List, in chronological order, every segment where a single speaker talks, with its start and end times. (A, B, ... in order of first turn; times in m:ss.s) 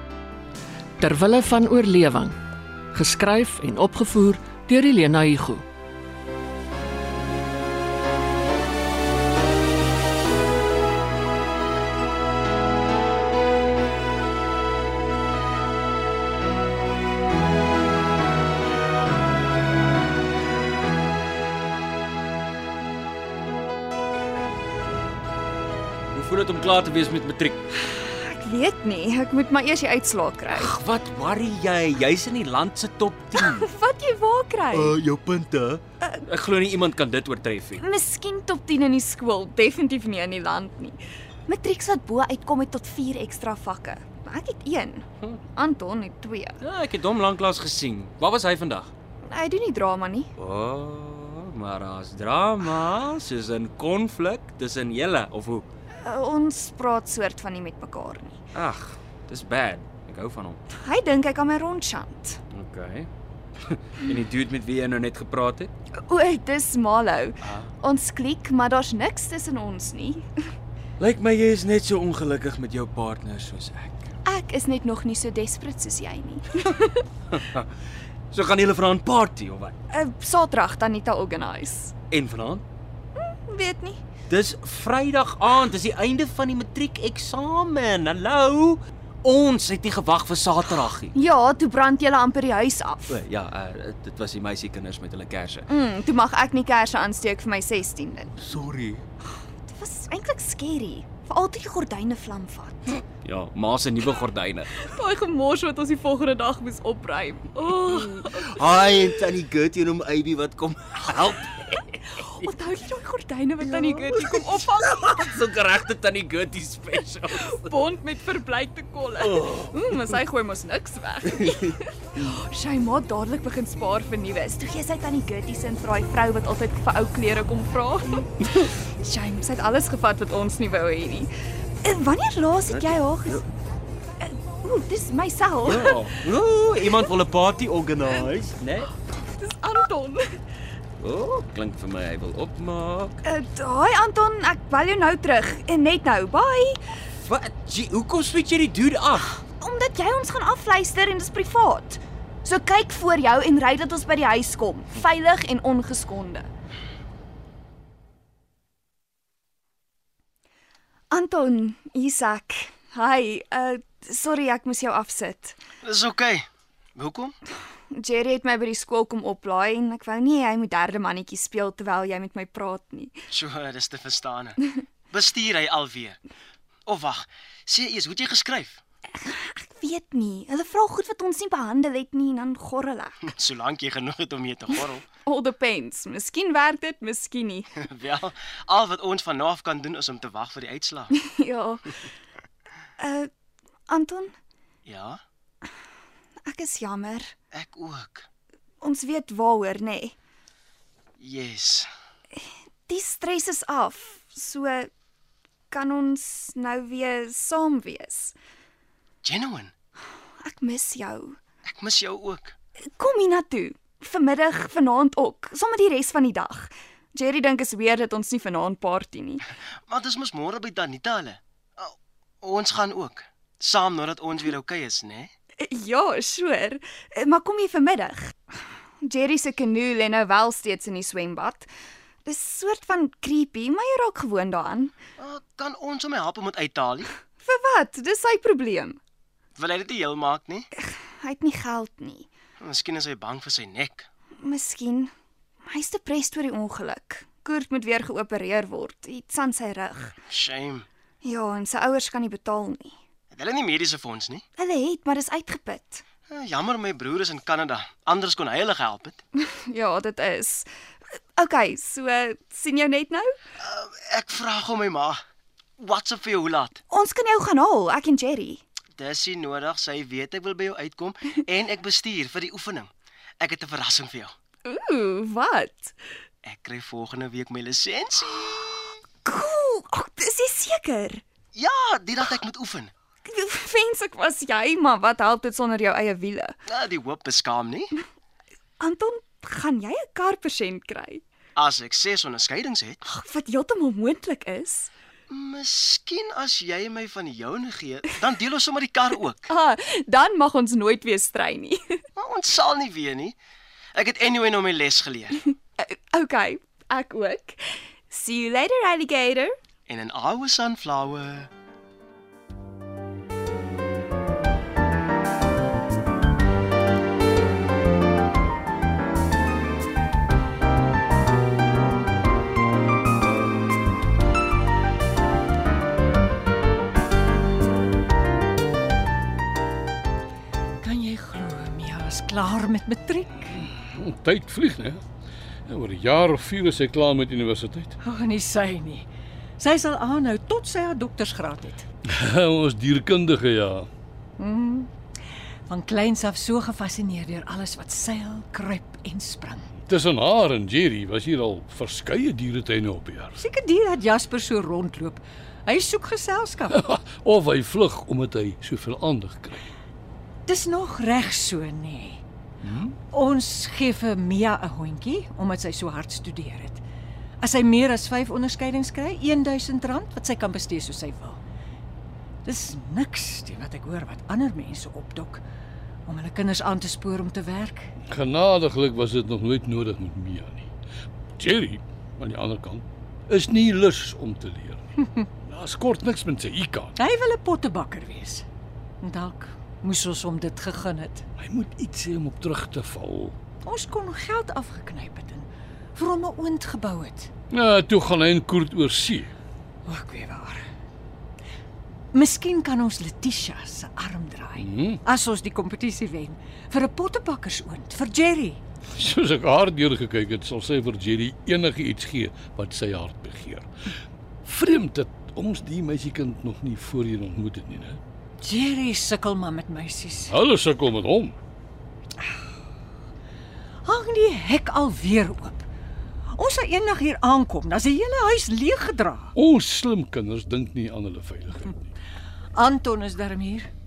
0:01.0-0:02.4 A
0:02.9-0:05.6 A
0:26.1-0:27.6 B
0:27.7-0:30.8 C
0:30.5-0:33.7 B
0:33.3-0:35.0 C
0:34.7-0:37.8 B
0:37.7-0:45.0 C
0:45.6-0:46.6 C
0:46.6-0:48.9 B
0:49.2-0:50.3 C
0:50.4-0:55.7 B
0:56.0-0:58.4 C
0:58.5-1:00.6 B
1:00.7-1:02.4 C
1:02.5-1:03.1 B
1:03.7-1:05.7 B
1:06.0-1:10.3 C
1:07.4-1:07.7 B
1:11.0-1:14.1 B
1:14.2-1:17.0 C
1:17.3-1:17.7 B
1:18.3-1:19.8 B
1:19.9-1:21.9 C
1:22.1-1:22.6 B
1:23.2-1:24.0 C
1:24.3-1:31.1 B
1:31.1-1:33.2 C
1:33.1-1:35.7 B
1:35.7-1:38.3 C
1:38.4-1:39.0 B
1:39.3-1:43.0 C
1:43.2-1:44.7 B
1:44.7-1:49.4 C
1:47.9-1:51.5 B
1:51.1-1:55.5 C
1:53.6-1:57.7 B
1:57.1-2:08.3 C
1:59.2-1:59.7 B
2:08.8-2:11.3 C
2:11.8-2:13.5 C
2:12.7-2:13.4 B
2:14.2-2:17.1 C
2:15.6-2:18.9 B
2:19.1-2:20.2 C
2:21.0-2:23.2 B
2:23.2-2:26.8 C
2:27.2-2:29.3 B
2:29.4-2:36.5 C
2:41.1-2:45.6 C
2:45.8-2:47.4 D
2:47.9-2:53.2 C
2:53.3-2:54.6 D
2:55.1-2:56.2 D
2:56.9-2:58.8 D
2:59.2-3:03.3 C
3:03.2-3:05.0 D
3:05.3-3:07.8 C
3:07.8-3:11.1 D
3:11.2-3:12.1 C
3:13.0-3:13.3 C
3:13.9-3:14.4 C
3:14.9-3:15.2 D
3:16.5-3:17.3 C
3:17.5-3:18.3 D
3:18.8-3:20.2 C
3:21.2-3:21.9 D
3:22.4-3:24.9 C
3:25.7-3:28.4 C
3:29.2-3:29.7 D
3:30.4-3:31.4 C
3:31.7-3:32.6 D
3:33.0-3:39.4 C
3:39.9-3:45.3 D
3:45.6-3:51.7 C
3:52.2-3:55.0 C
3:55.2-3:57.1 D
3:57.4-3:59.0 C
3:59.6-4:00.7 D
4:00.7-4:02.3 C
4:02.6-4:04.1 D
4:04.4-4:05.1 C
4:05.7-4:10.2 C
4:10.3-4:10.9 D
4:11.2-4:13.0 C
4:13.4-4:14.4 D
4:14.6-4:16.0 C
4:16.3-4:19.2 D
4:19.4-4:20.7 C
4:21.4-4:23.3 C
4:23.6-4:25.2 D
4:25.8-4:26.8 D
4:26.9-4:28.6 C
4:29.0-4:32.9 D
4:33.4-4:34.3 D
4:34.6-4:36.0 C
4:36.4-4:38.9 D
4:39.2-4:41.2 C
4:41.6-4:42.9 D
4:43.2-4:46.6 C
4:46.7-4:47.9 D
4:48.8-4:51.2 C
4:51.6-4:53.0 D
4:53.0-4:54.9 C
4:55.3-4:59.5 D
4:59.5-5:02.0 C
5:02.2-5:03.4 D
5:04.0-5:05.5 D
5:05.8-5:09.6 C
5:09.9-5:11.5 D
5:30.8-5:33.6 E
5:33.6-5:35.0 F
5:35.7-5:38.0 F
5:38.0-5:41.9 E
5:42.1-5:43.9 F
5:44.4-5:44.9 E
5:45.7-5:49.7 E
5:49.9-5:53.4 F
5:53.4-5:56.8 E
5:56.7-5:59.6 F
6:00.5-6:02.2 E
6:03.1-6:06.8 E
6:07.4-6:11.4 E
6:12.4-6:15.4 E
6:16.1-6:17.9 E
6:18.1-6:20.7 F
6:21.4-6:24.9 F
6:25.4-6:26.9 F
6:27.0-6:28.4 E
6:29.0-6:31.2 E
6:31.4-6:33.4 F
6:33.6-6:37.3 E
6:37.5-6:39.3 F
6:39.8-6:40.6 E
6:42.1-6:48.6 E
6:44.6-6:45.0 F
6:48.9-6:53.7 F
6:54.4-6:58.0 F
6:58.4-7:00.3 E
7:00.3-7:01.4 F
7:03.8-7:05.7 E
7:06.3-7:09.3 E
7:09.4-7:11.9 F
7:12.5-7:13.7 E